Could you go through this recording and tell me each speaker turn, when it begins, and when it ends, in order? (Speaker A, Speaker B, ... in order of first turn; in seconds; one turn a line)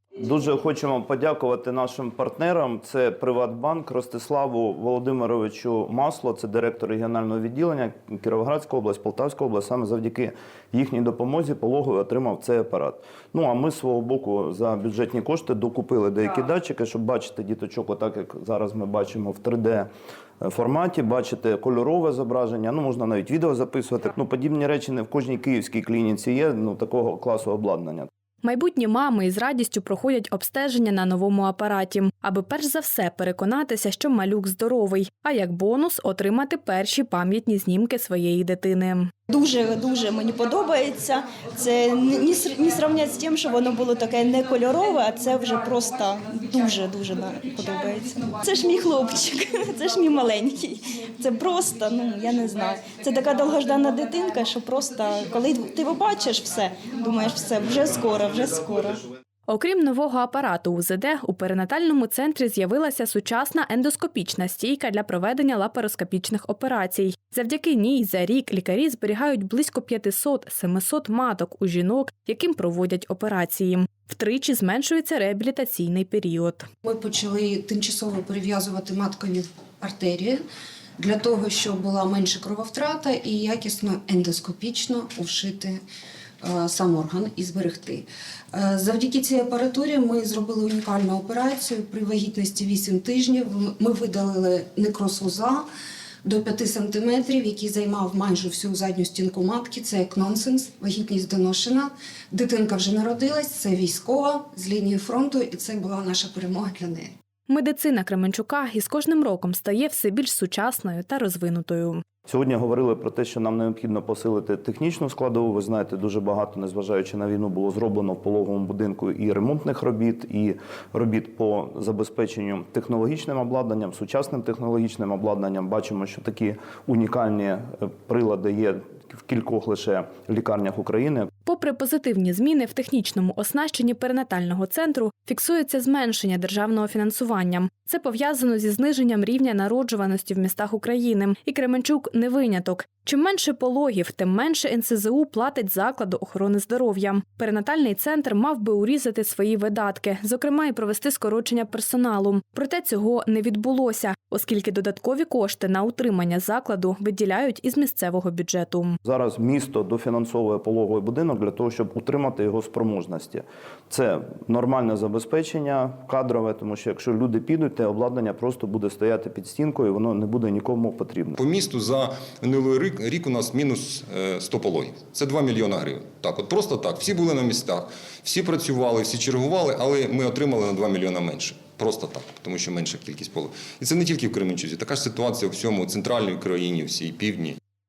Speaker A: 0.2-19.9
Speaker A: 20.4-28.1
Speaker B: 28.4-39.1
Speaker C: 39.3-59.0
Speaker B: 59.5-76.7
Speaker D: 76.8-80.4
Speaker D: 81.0-85.8
Speaker D: 86.4-95.6
Speaker D: 96.2-107.1
Speaker B: 107.5-112.0
Speaker A: 112.2-131.3
Speaker B: 131.4-159.0
Speaker A: 159.0-171.4
Speaker E: 171.4-187.6